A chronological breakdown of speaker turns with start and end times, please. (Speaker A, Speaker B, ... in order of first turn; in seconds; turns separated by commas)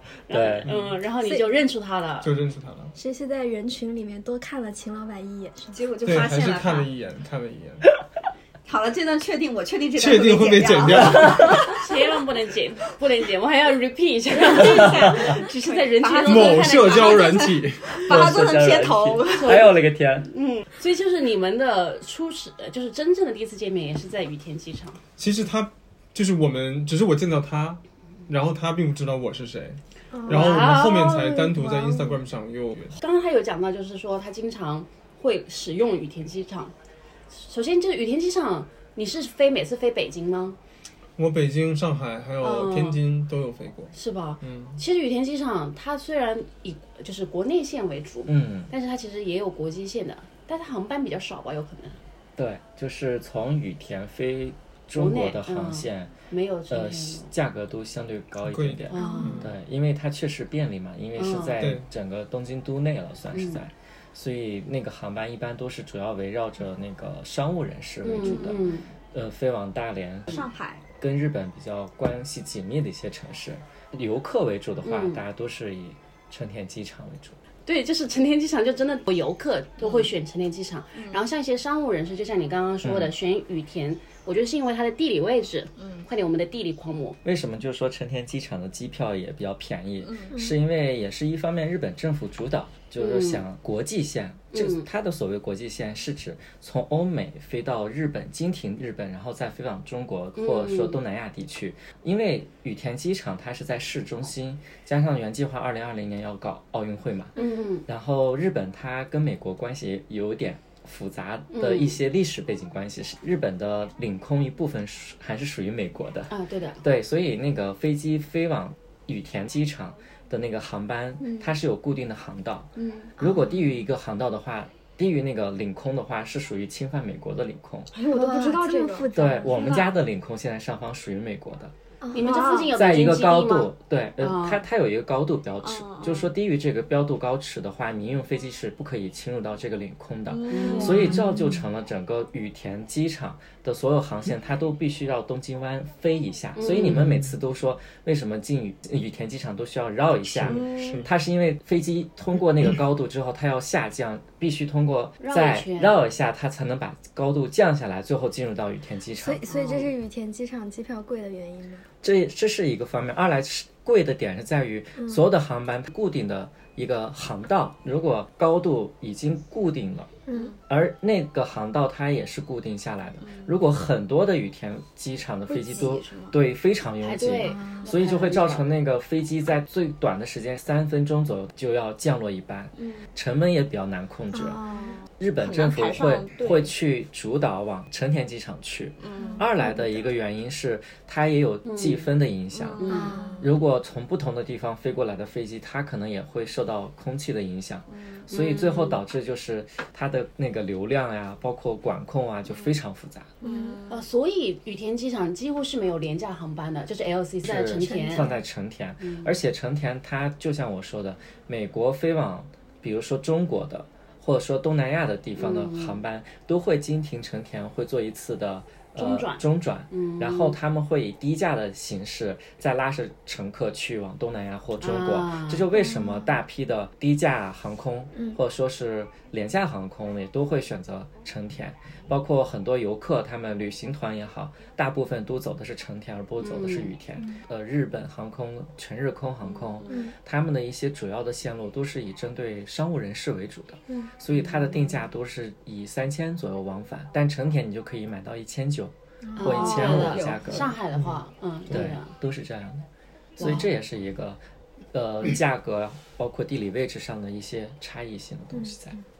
Speaker A: 0.3-2.3, Speaker B: 0.3-0.7, Speaker C: 0.7-1.0, Speaker D: 1.2-1.6, Speaker C: 2.2-2.9, Speaker D: 3.0-6.0, Speaker E: 5.7-6.9, Speaker C: 6.0-7.9, Speaker E: 8.7-11.8, Speaker C: 9.9-11.8, Speaker A: 11.7-17.4, Speaker E: 14.3-19.7, Speaker B: 14.7-15.2, Speaker C: 16.2-18.4, Speaker B: 18.1-20.3, Speaker A: 19.4-25.0, Speaker C: 25.2-33.0, Speaker D: 30.1-32.2, Speaker A: 30.3-31.3, Speaker A: 33.0-36.7, Speaker A: 37.3-40.6, Speaker C: 41.2-44.8, Speaker A: 42.4-43.0, Speaker A: 43.9-52.0, Speaker B: 48.3-48.7, Speaker B: 52.4-56.1, Speaker A: 55.0-57.3, Speaker B: 56.7-70.3, Speaker C: 58.4-59.5, Speaker A: 58.9-59.4, Speaker D: 59.0-59.4, Speaker A: 61.2-61.7, Speaker C: 61.6-61.9, Speaker A: 63.3-63.6, Speaker A: 68.0-68.9, Speaker E: 70.3-70.8, Speaker B: 71.0-77.4, Speaker A: 74.8-75.2, Speaker A: 77.7-87.2, Speaker E: 79.8-80.1, Speaker E: 80.9-81.2, Speaker B: 82.8-83.1, Speaker E: 85.8-86.0, Speaker B: 87.2-107.4, Speaker E: 90.0-90.4, Speaker D: 90.3-90.6, Speaker A: 93.0-93.4, Speaker A: 94.5-94.9, Speaker A: 100.4-101.0, Speaker A: 107.4-107.8, Speaker B: 107.9-127.9, Speaker A: 111.5-112.0, Speaker A: 116.3-116.8, Speaker D: 121.2-121.5, Speaker A: 122.8-123.1, Speaker D: 123.2-123.6, Speaker E: 127.9-130.0, Speaker D: 128.1-129.8, Speaker B: 129.2-131.7, Speaker D: 132.0-132.4, Speaker A: 132.1-134.6, Speaker E: 132.2-132.7, Speaker B: 132.8-159.4, Speaker E: 135.6-136.3, Speaker E: 140.3-141.2, Speaker A: 140.5-141.2, Speaker C: 141.1-141.6, Speaker A: 146.6-147.0, Speaker C: 146.9-147.3, Speaker C: 150.2-151.1, Speaker E: 150.4-151.1, Speaker A: 155.2-156.0, Speaker D: 159.2-161.9, Speaker B: 162.0-170.2, Speaker D: 165.0-165.2, Speaker D: 170.3-170.5, Speaker E: 170.3-170.6, Speaker B: 170.7-184.6, Speaker E: 173.2-173.6, Speaker E: 175.5-176.3, Speaker A: 177.0-178.7, Speaker D: 177.4-177.8, Speaker E: 182.8-183.1, Speaker D: 184.3-184.9, Speaker E: 184.7-186.7, Speaker B: 185.2-203.3, Speaker E: 189.0-190.0, Speaker D: 189.2-189.5, Speaker A: 191.7-192.1, Speaker E: 192.5-193.6, Speaker A: 192.8-193.2, Speaker D: 192.9-193.5, Speaker E: 197.9-198.2, Speaker A: 198.3-199.0, Speaker E: 202.5-202.8, Speaker D: 203.4-203.8, Speaker E: 203.4-204.1, Speaker A: 203.9-208.3, Speaker B: 207.4-250.8, Speaker D: 207.8-208.4, Speaker A: 209.0-209.3, Speaker A: 215.4-216.0, Speaker A: 219.0-220.6, Speaker A: 224.8-225.6, Speaker D: 225.7-226.4, Speaker A: 236.4-236.9, Speaker E: 239.5-240.1, Speaker A: 244.4-244.7, Speaker D: 249.2-249.7, Speaker A: 249.4-252.1, Speaker E: 249.5-250.7, Speaker C: 250.9-251.2, Speaker B: 251.7-252.9, Speaker B: 253.4-254.4, Speaker A: 253.4-253.7, Speaker B: 254.9-259.0, Speaker D: 258.5-259.0